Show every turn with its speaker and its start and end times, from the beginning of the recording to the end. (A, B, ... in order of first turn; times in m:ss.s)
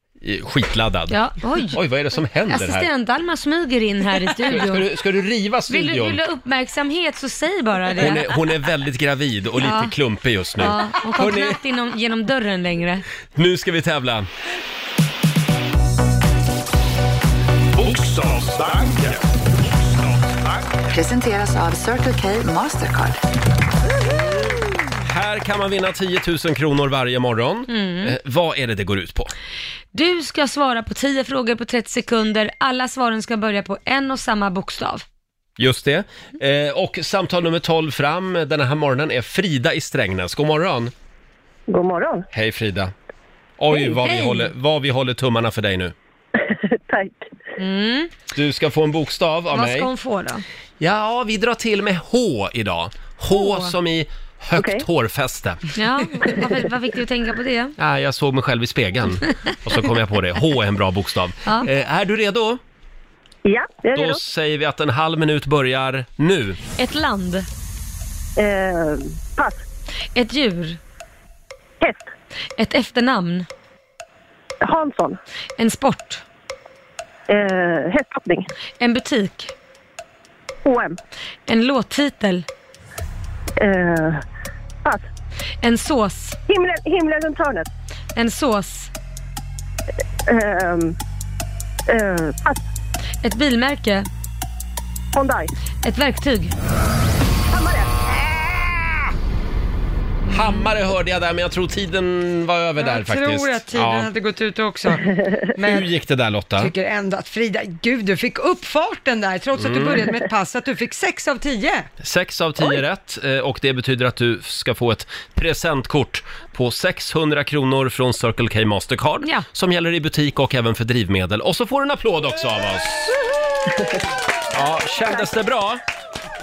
0:00.2-0:01.2 A
0:01.1-0:01.8 B
0:01.7-0:02.9 A
0:02.5-0:04.9 B
0:04.5-0:06.2 A
0:05.7-0:08.4 B
0:08.0-0:11.6 A
0:09.6-0:09.9 B
0:10.6-0:13.0 B
0:13.3-0:14.3 A
0:17.7-0:20.7 C
0:20.9-0:23.2 D
0:25.0-0:29.3 A
0:27.7-0:28.1 B
0:29.9-0:35.0 B
0:35.6-0:40.9 A
0:41.7-0:42.2 E
0:42.3-0:42.9 A
0:43.6-0:45.9 A
0:43.7-0:44.5 B
0:46.4-0:47.2 E
0:47.6-0:48.1 B
0:48.3-0:49.9 A
0:49.5-0:50.4 B
0:50.8-0:55.7 A
0:53.3-0:53.7 B
0:54.6-0:54.8 E
0:55.7-0:57.8 B
0:57.8-1:02.6 A
1:03.4-1:04.2 E
1:03.9-1:06.6 A
1:06.8-1:07.5 B
1:08.4-1:09.6 E
1:10.1-1:10.8 B
1:11.8-1:12.1 E
1:12.6-1:13.5 B
1:14.6-1:15.2 E
1:15.6-1:16.2 B
1:17.3-1:18.5 E
1:18.8-1:19.5 B
1:20.6-1:21.0 E
1:21.5-1:22.4 B
1:23.6-1:24.2 E
1:25.6-1:26.4 B
1:26.5-1:27.7 E
1:28.1-1:28.9 B
1:30.3-1:31.0 E
1:31.9-1:32.6 E
1:33.2-1:34.1 B
1:35.1-1:35.5 E
1:35.8-1:36.5 B
1:37.5-1:38.0 E
1:40.3-1:44.1 A
1:42.8-1:45.9 F
1:45.6-1:46.7 A
1:46.6-1:51.9 F
1:49.6-1:50.0 A
1:52.0-2:03.2 A
2:03.7-2:04.0 E
2:04.5-2:05.8 A